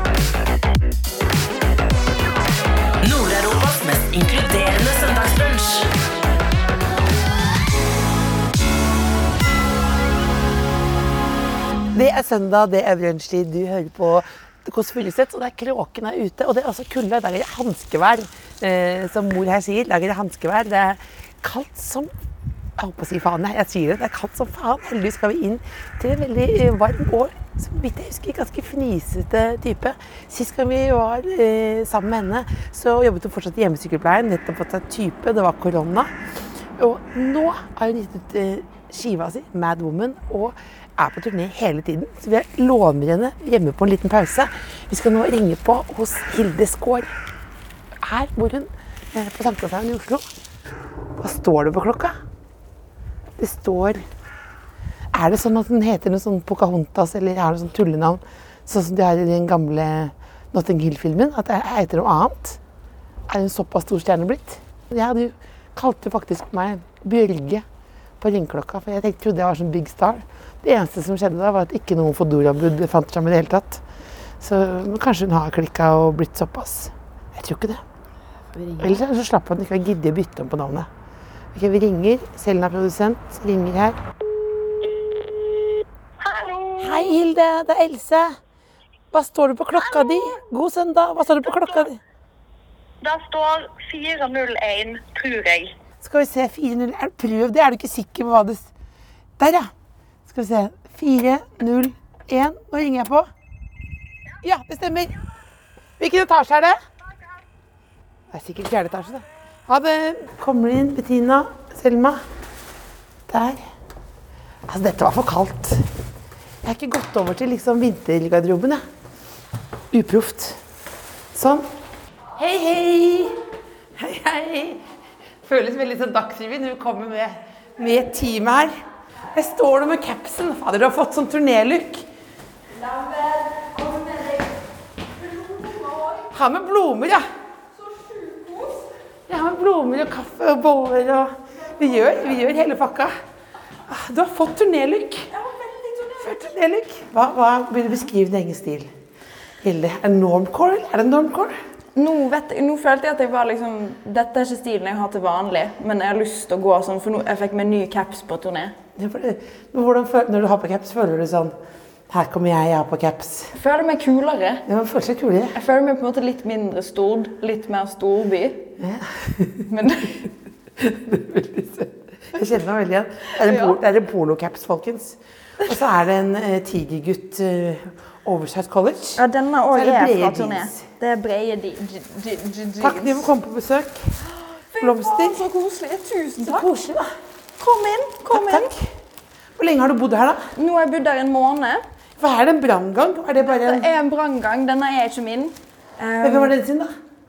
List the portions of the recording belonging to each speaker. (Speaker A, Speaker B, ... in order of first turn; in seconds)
Speaker A: 3.0-5.9
Speaker B: 11.9-22.1, 22.8-36.1, 36.8-47.1, 48.0-50.3, 51.2-52.2, 53.4-54.1, 55.1-62.6, 63.3-67.7, 68.2-73.8, 74.4-77.8, 78.7-80.9, 81.5-84.0, 86.8-88.4, 89.1-92.0, 96.0-98.7, 99.4-99.7, 100.3-103.3, 104.4-105.2, 106.0-106.8, 108.3-112.2, 113.3-113.6, 114.7-115.9, 116.6-118.8, 119.9-120.6, 121.3-121.7, 122.4-123.4, 124.0-124.8, 125.4-128.8, 129.3-132.1, 136.3-137.2, 139.3-143.1, 143.9-145.3, 146.2-148.9, 149.6-151.6, 159.0-161.6, 162.1-163.5, 164.7-165.6, 168.8-169.7, 170.8-179.2, 179.7-180.8, 182.8-184.1, 184.8-185.5, 186.4-187.2, 188.3-188.9, 189.6-190.5, 192.2-193.9, 196.2-196.9
Speaker C: 86.2-87.1, 89.9-90.3, 93.0-95.7
Speaker D: 132.7-134.5, 135.2-136.3, 137.8-138.9, 145.3-146.5, 152.0-158.8, 163.5-164.7, 165.5-168.7, 169.7-170.3, 173.4-173.8, 179.2-183.3, 184.3-186.7, 187.6-188.7, 190.6-191.8, 193.5-196.6